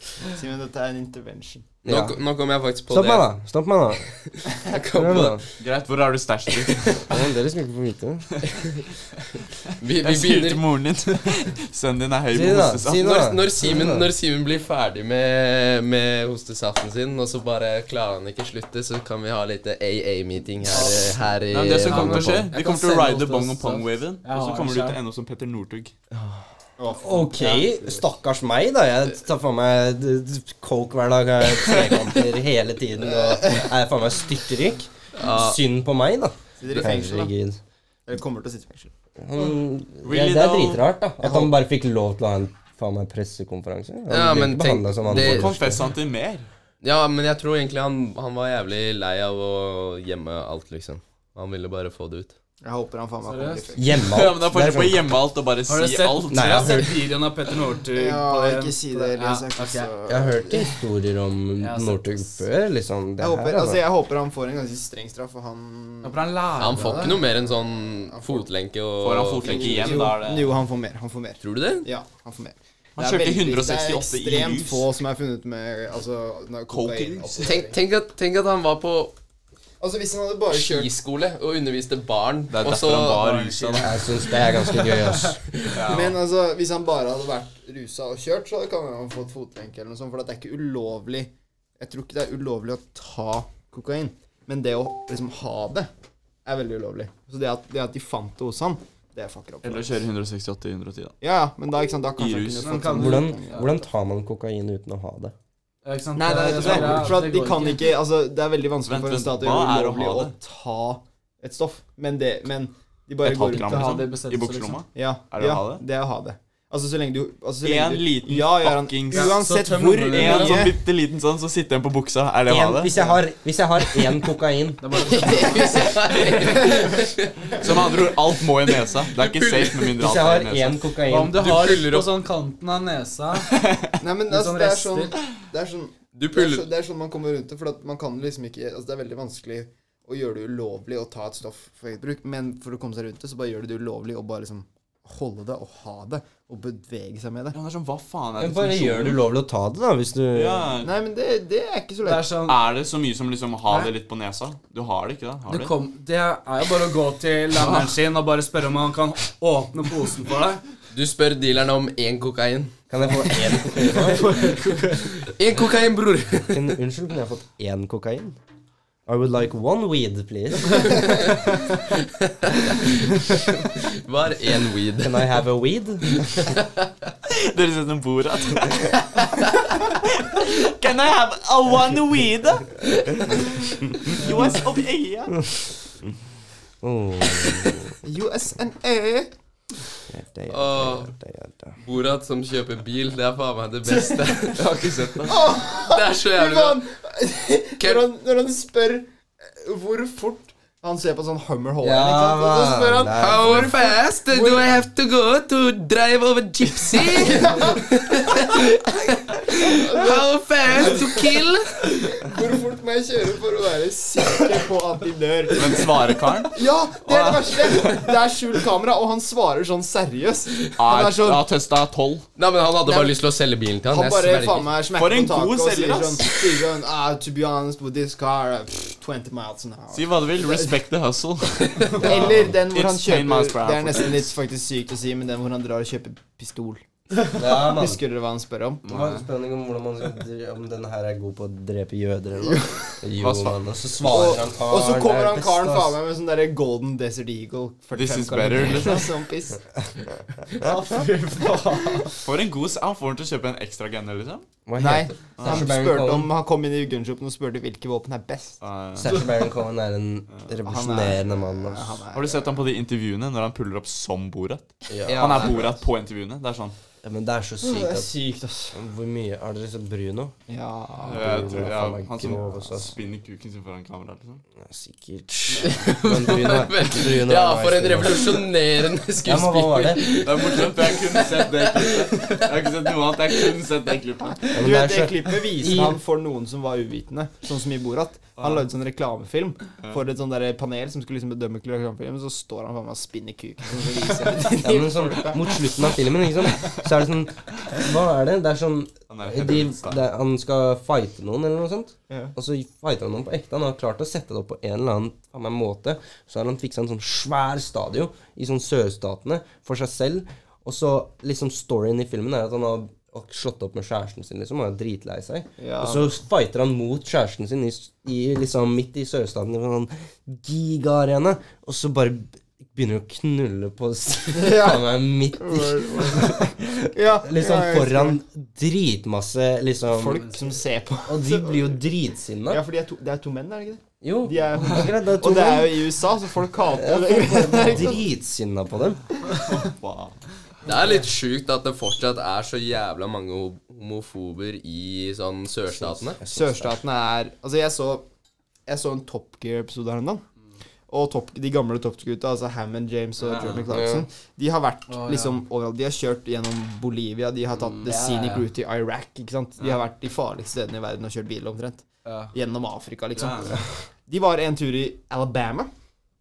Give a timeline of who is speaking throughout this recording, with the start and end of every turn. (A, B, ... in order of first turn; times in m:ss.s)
0:00.3-0:01.7 A
0:01.8-0:02.2 B
0:01.8-0:03.3 C
0:02.9-0:04.1 B
0:04.2-0:05.4 C
0:04.9-0:05.4 B
0:05.6-0:07.1 D
0:07.1-0:08.3 B
0:09.8-0:10.6 C
0:10.0-0:13.0 D
0:12.3-0:14.1 B
0:13.0-0:22.5 C
0:20.7-0:21.0 E
0:21.5-0:25.9 D
0:21.8-0:25.0 E
0:26.8-0:28.0 A
0:27.0-0:37.6 B
0:35.2-0:35.6 C
0:36.6-0:37.3 A
0:38.1-0:38.9 A
0:39.2-0:45.8 B
0:40.0-0:40.8 D
0:41.2-0:41.5 A
0:44.1-0:45.5 C
0:45.0-0:46.5 D
0:46.8-0:52.3 C
0:52.6-0:53.9 A
0:53.2-0:53.7 E
0:53.7-0:55.0 B
0:54.0-0:56.8 D
0:55.7-0:59.9 E
0:56.3-0:57.0 B
0:57.9-1:00.7 A
1:00.1-1:03.8 B
1:01.6-1:02.3 E
1:03.2-1:07.3 A
1:06.0-1:07.2 E
1:06.6-1:10.0 C
1:08.1-1:08.4 A
1:09.0-1:10.6 D
1:09.4-1:17.8 A
1:11.4-1:11.9 C
1:13.0-1:14.9 D
1:16.7-1:17.6 D
1:17.4-1:19.1 C
1:19.8-1:20.9 A
1:20.5-1:23.4 C
1:22.5-1:23.9 D
1:23.2-1:25.4 E
1:23.8-1:25.4 B
1:25.7-1:26.2 D
1:25.8-1:35.9 A
1:36.4-1:40.0 A
1:39.6-1:41.2 D
1:41.2-1:43.8 A
1:42.2-1:42.8 D
1:42.6-1:43.7 E
1:42.8-1:45.3 B
1:45.8-1:47.9 E
1:46.1-1:54.0 A
1:46.3-1:47.2 D
1:48.8-1:50.3 D
1:53.2-1:55.8 D
1:53.5-1:54.8 E
1:54.9-2:00.7 A
1:57.6-1:59.4 D
1:59.1-2:00.7 E
2:00.0-2:02.9 D
2:02.4-2:05.2 B
2:02.9-2:03.2 A
2:04.8-2:06.0 E
2:05.1-2:06.9 A
2:05.3-2:07.8 C
2:06.5-2:06.7 E
2:07.6-2:10.8 D
2:09.2-2:09.9 C
2:10.0-2:11.5 B
2:11.0-2:13.5 E
2:11.4-2:12.1 C
2:13.5-2:13.9 D
2:14.0-2:27.6 A
2:14.2-2:15.2 E
2:16.1-2:16.7 C
2:27.5-2:29.2 D
2:28.4-2:30.7 B
2:30.3-2:30.9 D
2:30.8-2:32.3 A
2:32.0-2:32.6 E
2:32.4-2:35.7 D
2:35.5-2:40.6 E
2:37.5-2:38.0 D
2:40.9-2:42.7 C
2:42.9-2:44.5 B
2:43.9-2:45.2 E
2:44.9-2:46.6 C
2:46.5-2:48.4 B
2:49.0-2:51.2 B
2:51.9-2:55.4 C
2:55.0-2:56.3 B
2:56.2-2:56.9 C
2:57.3-2:59.1 D
2:59.8-3:05.4 D
3:06.8-3:08.0 B
3:08.0-3:09.3 A
3:10.1-3:11.8 B
3:10.5-3:11.1 C
3:11.8-3:16.8 C
3:13.9-3:14.6 A
3:14.5-3:15.5 D
3:15.2-3:24.7 A
3:17.8-3:18.0 C
3:21.8-3:23.7 B
3:23.1-3:31.7 C
3:27.1-3:27.9 A
3:29.5-3:35.9 A
3:35.5-3:37.7 D
3:36.5-3:41.4 A
3:40.8-3:42.2 D
3:42.4-3:44.7 C
3:42.8-3:43.1 A
3:43.9-3:50.7 A
3:44.9-3:46.7 D
3:49.9-3:54.3 D
3:51.6-3:52.0 C
3:52.0-3:52.5 B
3:52.0-3:56.8 A
3:57.3-3:58.0 B
3:57.5-3:58.9 A
3:58.8-3:59.2 D
3:58.9-4:06.0 B
4:02.4-4:02.9 A
4:03.2-4:03.6 D
4:04.0-4:09.8 A
4:07.9-4:09.0 D
4:10.5-4:12.2 E
4:12.2-4:14.4 D
4:14.6-4:16.3 B
4:14.8-4:18.6 A
4:15.4-4:15.6 D
4:18.6-4:19.1 D
4:19.0-4:22.0 B
4:20.6-4:22.5 A
4:22.1-4:26.7 D
4:24.9-4:25.7 B
4:25.1-4:25.5 C
4:27.0-4:28.1 B
4:27.6-4:28.8 A
4:28.7-4:30.3 B
4:30.5-4:31.7 A
4:31.0-4:34.4 D
4:31.1-4:32.9 B
4:34.6-4:38.4 B
4:35.6-4:42.4 C
4:39.2-4:40.2 B
4:40.1-4:44.6 D
4:44.5-4:46.0 B
4:44.5-4:55.9 A
4:48.4-4:48.7 D
4:54.6-5:30.2 B
4:59.1-5:00.0 D
5:15.6-5:16.1 A
5:24.3-5:28.2 A
5:29.9-5:31.8 A
5:31.1-5:32.6 B
5:32.5-5:38.0 A
5:34.0-5:35.9 B
5:36.8-5:39.0 B
5:39.4-5:40.2 D
5:40.6-5:46.2 C
5:45.8-5:46.8 B
5:46.3-5:48.0 A
5:48.6-5:50.2 A
5:50.9-6:05.7 A
5:53.7-5:54.0 B
5:54.9-5:55.4 E
5:57.7-5:58.4 E
6:02.0-6:02.3 E
6:03.1-6:03.5 D